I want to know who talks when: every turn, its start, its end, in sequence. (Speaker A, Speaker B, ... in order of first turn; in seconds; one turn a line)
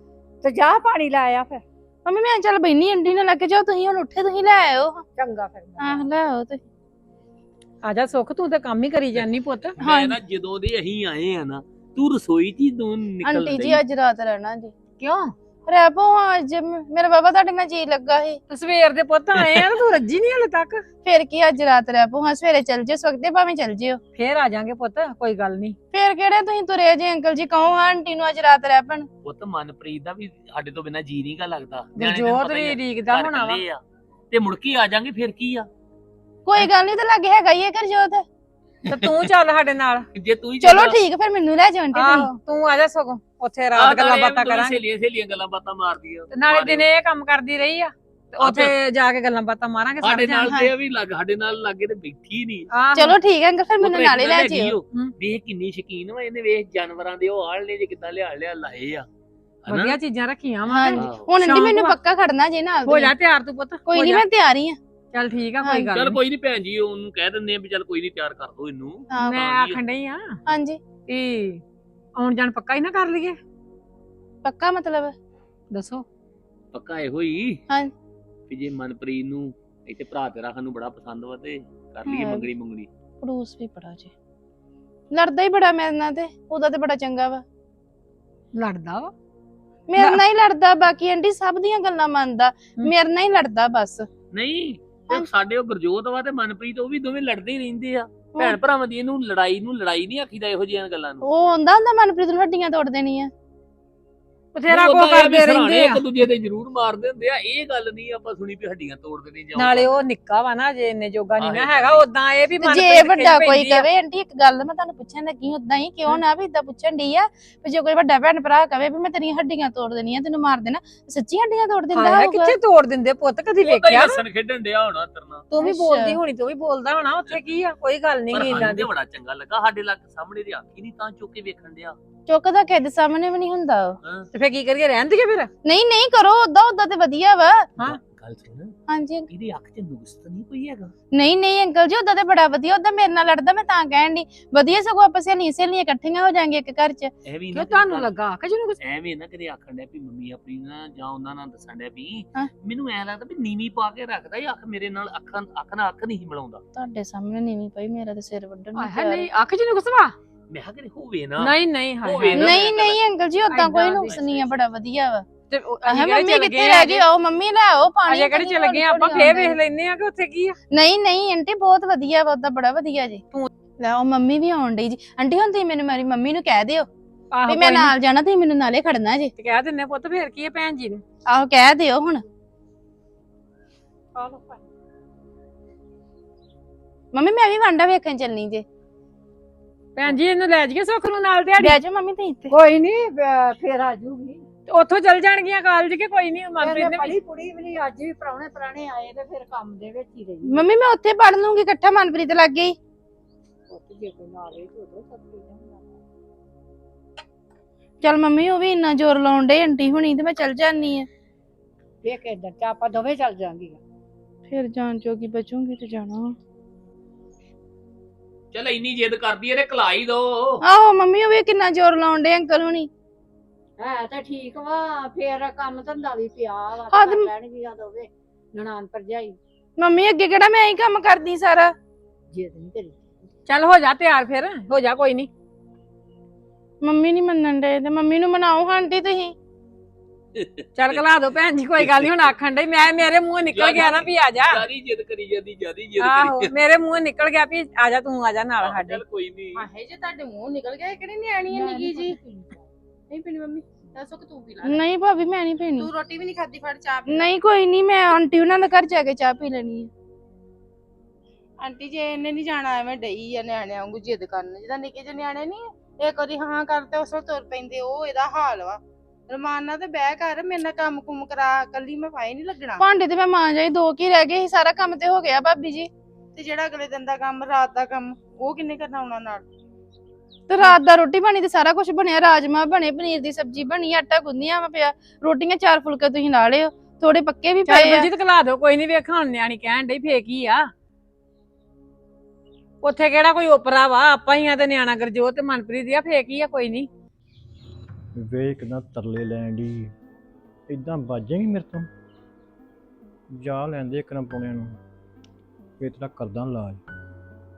Speaker A: 0.4-1.6
Speaker B: 2.0-5.0
Speaker A: 5.2-6.1
Speaker B: 5.8-6.6
Speaker C: 7.8-9.8
Speaker B: 9.8-10.2
Speaker D: 9.8-13.8
Speaker B: 13.2-14.7
Speaker B: 15.7-18.4
Speaker C: 18.5-20.9
Speaker B: 21.0-24.0
Speaker C: 24.1-25.8
Speaker B: 25.9-29.1
Speaker D: 29.2-33.8
Speaker C: 31.9-33.6
Speaker D: 34.3-35.7
Speaker B: 36.5-38.2
Speaker C: 38.9-40.1
Speaker D: 40.1-41.0
Speaker B: 40.6-42.3
Speaker C: 41.9-44.8
Speaker D: 43.8-46.9
Speaker C: 46.3-50.5
Speaker D: 48.4-48.7
Speaker D: 50.0-52.7
Speaker C: 52.7-53.2
Speaker B: 53.0-54.8
Speaker D: 53.8-59.1
Speaker D: 59.6-60.0
Speaker C: 59.7-62.0
Speaker B: 60.7-63.1
Speaker D: 61.0-61.3
Speaker C: 62.9-64.3
Speaker B: 63.9-64.8
Speaker C: 65.1-66.2
Speaker D: 65.9-69.8
Speaker B: 69.1-69.4
Speaker C: 69.2-70.4
Speaker B: 70.5-70.8
Speaker C: 71.1-71.6
Speaker C: 72.2-73.4
Speaker B: 74.4-75.2
Speaker C: 75.7-76.1
Speaker D: 76.7-77.6
Speaker D: 78.5-82.9
Speaker B: 82.1-82.5
Speaker B: 83.2-84.1
Speaker B: 85.1-87.4
Speaker C: 88.5-89.1
Speaker B: 89.9-94.1
Speaker C: 90.0-90.2
Speaker D: 94.3-101.2
Speaker B: 101.2-103.3
Speaker C: 104.5-106.0
Speaker D: 104.7-110.0
Speaker C: 109.5-113.9
Speaker D: 111.4-112.1
Speaker B: 112.6-122.6
Speaker C: 121.9-124.2
Speaker D: 123.6-125.5
Speaker C: 125.5-128.9
Speaker B: 125.6-126.2
Speaker D: 128.3-132.0
Speaker B: 132.3-134.0
Speaker C: 134.3-135.5
Speaker B: 135.7-137.7
Speaker D: 137.8-138.8
Speaker B: 138.9-139.3
Speaker D: 139.3-140.9
Speaker B: 141.1-147.1
Speaker D: 147.2-148.1
Speaker C: 147.5-148.8
Speaker D: 148.8-156.6
Speaker B: 156.8-159.3
Speaker C: 158.8-160.2
Speaker D: 160.5-163.0
Speaker C: 161.4-162.6
Speaker B: 162.3-165.3
Speaker C: 163.5-164.1
Speaker D: 164.1-164.6
Speaker C: 165.5-167.1
Speaker B: 165.9-169.6
Speaker C: 168.1-170.6
Speaker B: 170.7-173.2
Speaker B: 173.8-176.9
Speaker C: 177.3-177.9
Speaker B: 177.5-179.3
Speaker C: 179.4-181.0
Speaker B: 181.3-182.2
Speaker C: 184.2-184.6
Speaker B: 187.1-188.7
Speaker C: 190.0-191.8
Speaker B: 191.6-192.6
Speaker A: 192.5-194.5
Speaker C: 194.7-197.2
Speaker A: 196.6-200.7
Speaker B: 200.4-202.8
Speaker A: 203.7-206.0
Speaker B: 208.0-211.1
Speaker A: 212.0-213.8
Speaker B: 214.5-216.3
Speaker D: 218.5-220.6
Speaker B: 220.6-222.9
Speaker A: 223.8-229.4
Speaker B: 226.9-227.3
Speaker B: 229.8-231.7
Speaker A: 232.3-233.2
Speaker C: 233.5-235.3
Speaker B: 236.8-239.3
Speaker D: 240.4-241.0
Speaker C: 240.8-244.6
Speaker D: 241.8-242.3
Speaker D: 243.5-246.5
Speaker C: 246.0-249.0
Speaker D: 248.6-249.7
Speaker E: 249.6-252.2
Speaker A: 251.5-252.7
Speaker E: 253.1-254.8
Speaker B: 254.6-255.9
Speaker E: 255.8-257.3
Speaker B: 257.1-259.9
Speaker E: 261.6-272.8
Speaker B: 272.8-275.9
Speaker E: 276.4-279.4
Speaker B: 280.5-288.1
Speaker C: 287.7-290.7
Speaker C: 292.8-296.9
Speaker F: 298.1-299.9
Speaker F: 300.7-301.9
Speaker F: 303.4-304.8
Speaker F: 305.8-306.8